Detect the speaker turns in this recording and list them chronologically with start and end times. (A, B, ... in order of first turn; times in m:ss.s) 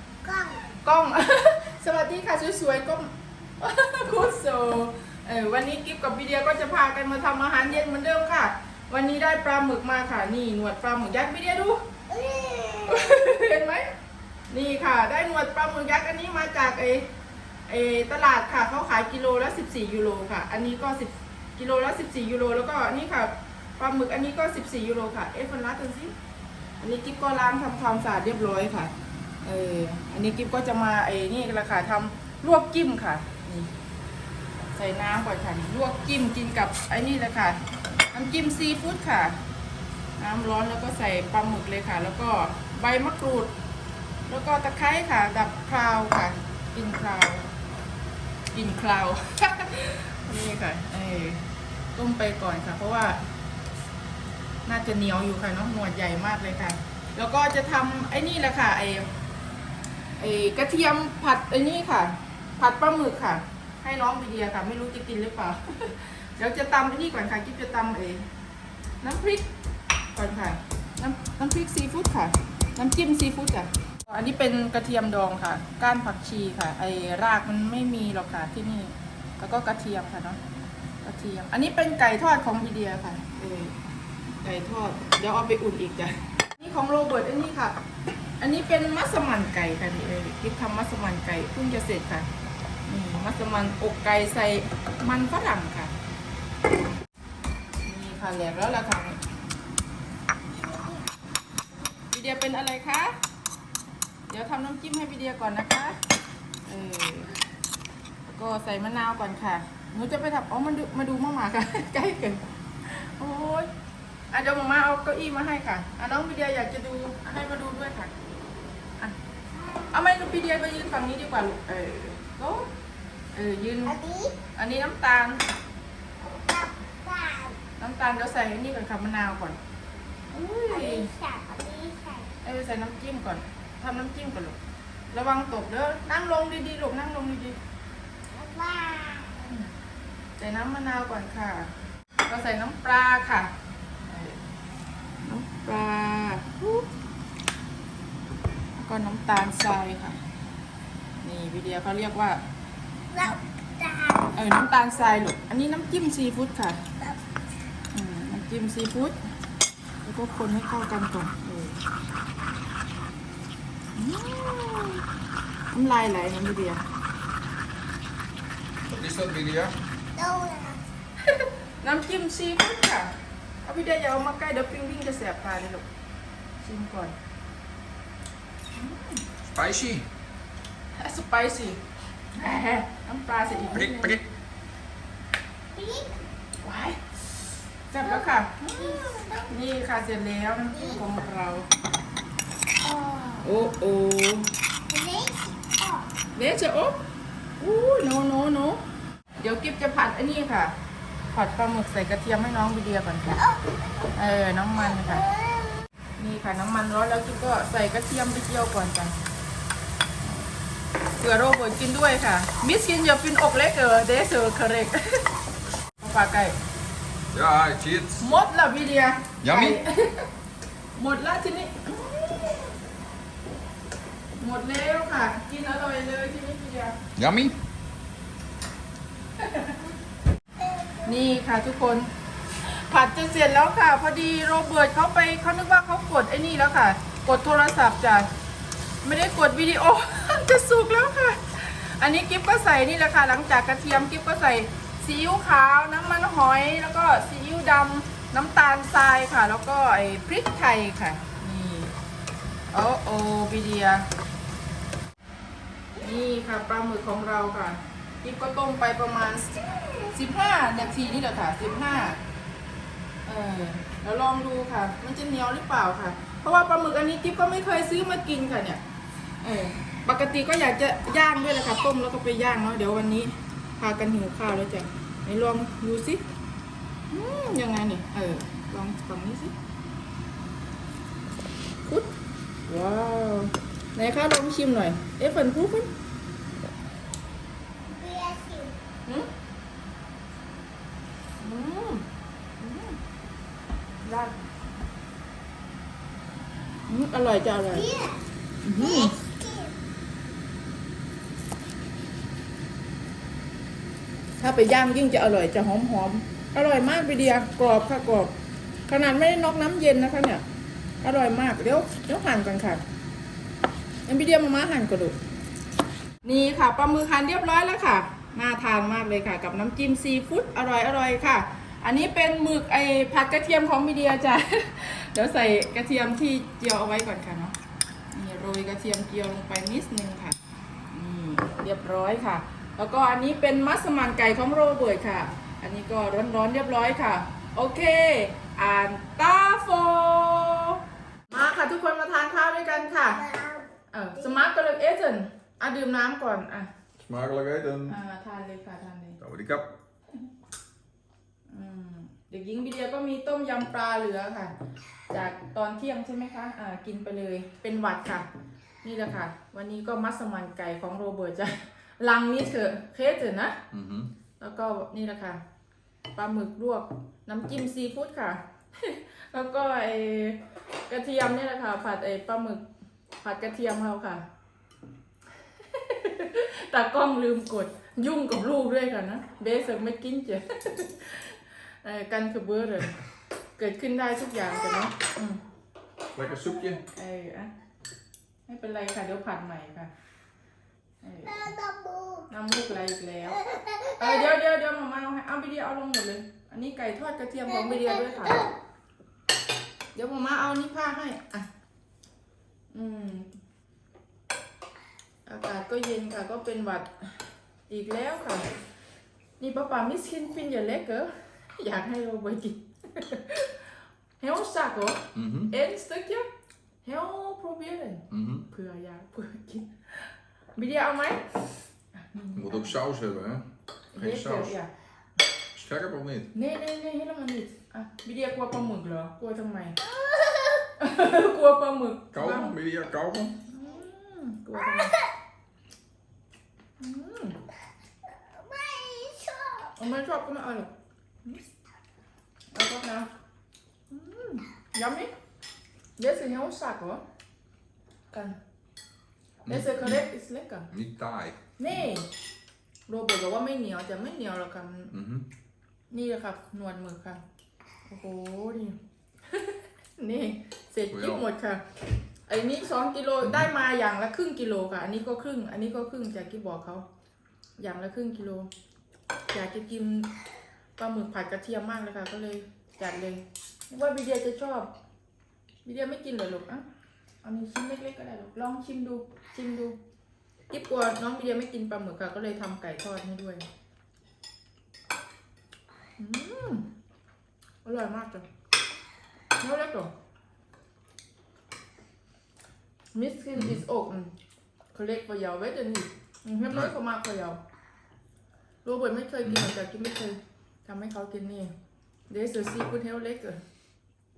0:00.2-0:00.6 A
0:00.8-0:11.8 B
0:12.1-0:13.1 A
0:12.9-0:13.9 B
0:14.5-0:17.1 B
0:17.7-0:26.1 B
0:26.8-0:33.7 B
0:34.7-0:39.4 B
0:40.2-0:43.5 B
0:44.3-0:47.5 B
0:48.5-0:53.2 B
0:54.6-0:59.1 B
1:00.2-1:08.3 B
1:09.0-1:09.5 B
1:10.1-1:20.4 B
1:21.0-1:23.7 B
1:24.4-1:27.8 B
1:28.4-1:32.3 B
1:32.9-1:35.9 B
1:37.8-1:39.2 B
1:40.6-1:41.0 A
1:42.1-1:43.1 B
1:44.3-1:46.0 B
1:46.6-1:47.3 B
1:48.3-1:53.7 B
1:54.3-1:58.1 B
1:59.9-2:02.7 B
2:03.3-2:04.0 B
2:03.8-2:04.3 A
2:04.5-2:05.4 B
2:06.3-2:07.6 A
2:07.8-2:09.6 B
2:10.3-2:11.1 B
2:10.7-2:12.3 A
2:12.4-2:14.6 B
2:15.1-2:17.6 B
2:18.3-2:19.5 A
2:20.4-2:21.7 B
2:22.3-2:23.5 B
2:24.0-2:24.4 B
2:25.2-2:26.9 B
2:28.8-2:30.2 B
2:31.2-2:32.4 B
2:33.1-2:34.4 A
2:34.3-2:36.8 B
2:37.9-2:39.2 B
2:40.0-2:41.8 B
2:43.9-2:45.0 B
2:45.7-2:46.8 B
2:48.9-2:49.7 C
2:50.2-2:50.8 A
2:51.2-2:55.8 B
2:56.6-2:57.1 B
2:58.7-2:59.2 B
2:59.4-3:00.1 C
3:01.0-3:01.8 B
3:02.3-3:04.2 B
3:03.7-3:04.2 C
3:05.7-3:06.1 A
3:06.6-3:07.0 B
3:07.9-3:11.7 B
3:08.0-3:09.5 A
3:10.7-3:11.0 A
3:12.8-3:13.5 A
3:13.4-3:14.5 B
3:14.9-3:16.1 A
3:16.3-3:17.0 B
3:17.6-3:18.8 B
3:19.4-3:20.7 B
3:21.3-3:23.3 B
3:23.4-3:23.8 A
3:24.1-3:25.2 B
3:24.9-3:25.8 A
3:26.2-3:29.2 B
3:31.2-3:35.3 B
3:36.0-3:36.6 B
3:37.3-3:38.2 C
3:38.2-3:40.3 B
3:39.4-3:39.8 C
3:40.9-3:42.5 B
3:44.4-3:47.0 B
3:47.2-3:47.6 C
3:49.4-3:49.8 B
3:50.6-3:51.0 A
3:51.0-3:52.1 B
3:52.6-3:58.3 B
3:59.0-4:11.9 B
4:12.7-4:14.1 B
4:16.0-4:22.2 B
4:23.2-4:28.8 B
4:29.4-4:36.2 B
4:37.1-4:39.5 B
4:41.8-4:42.1 B
4:42.6-4:45.9 B
4:47.8-4:48.8 A
4:51.4-4:52.1 B
4:52.6-4:53.0 B
4:54.0-4:54.4 B
4:56.9-4:57.9 B
4:57.7-4:58.2 A
4:58.6-4:59.2 B
4:58.8-4:59.7 A
5:04.4-5:08.3 B
5:08.9-5:10.4 B
5:11.0-5:12.8 B
5:14.0-5:15.2 B
5:16.2-5:27.5 B
5:28.1-5:30.4 B
5:30.9-5:40.8 B
5:41.3-5:43.2 B
5:42.9-5:44.4 A
5:43.9-5:46.7 B
5:47.0-5:48.0 C
5:47.9-5:49.2 B
5:49.2-5:49.7 C
5:51.5-5:54.5 B
5:55.1-5:58.3 B
5:58.8-6:03.6 B
6:03.7-6:04.1 C
6:04.4-6:05.4 B
6:06.1-6:12.6 B
6:13.2-6:14.2 B
6:15.7-6:23.0 B
6:23.6-6:25.4 B
6:26.1-6:26.8 C
6:26.8-6:27.5 B
6:28.5-6:29.9 B
6:31.0-6:31.4 B
6:31.2-6:32.3 A
6:32.3-6:38.4 B
6:33.4-6:34.3 A
6:37.4-6:38.6 A
6:39.9-6:41.5 B
6:42.7-6:43.3 B
6:45.2-6:48.4 B
6:49.4-6:53.7 B
6:54.2-6:56.2 B
6:55.1-6:55.5 C
6:56.8-7:01.4 B
6:58.1-6:58.5 C
7:02.0-7:02.7 B
7:02.3-7:04.5 C
7:03.9-7:04.7 B
7:05.5-7:06.3 C
7:06.3-7:09.8 B
7:10.0-7:10.6 A
7:10.8-7:12.6 B
7:12.1-7:13.4 C
7:13.5-7:15.0 B
7:16.8-7:17.4 B
7:18.2-7:19.7 A
7:19.8-7:20.7 B
7:22.5-7:23.1 B
7:23.9-7:25.1 B
7:26.0-7:27.0 B
7:28.1-7:28.4 B
7:29.4-7:30.0 C
7:29.5-7:30.7 B
7:30.7-7:31.4 C
7:31.6-7:32.1 B
7:32.9-7:34.9 B
7:34.9-7:35.3 C
7:35.9-7:37.2 B
7:37.9-7:38.8 B
7:39.3-7:41.6 B
7:40.9-7:41.2 C
7:42.2-7:46.8 B
7:43.2-7:43.5 C
7:47.6-7:48.5 B
7:49.3-7:50.1 B
7:50.8-7:54.7 B
7:55.6-7:56.6 B
7:57.2-7:59.8 B
8:00.5-8:03.4 B
8:06.0-8:06.7 B
8:07.6-8:08.2 B
8:09.4-8:09.9 B
8:12.9-8:14.1 B
8:13.3-8:13.6 C
8:14.7-8:17.4 B
8:18.6-8:21.5 B
8:19.2-8:19.5 C
8:22.1-8:23.4 B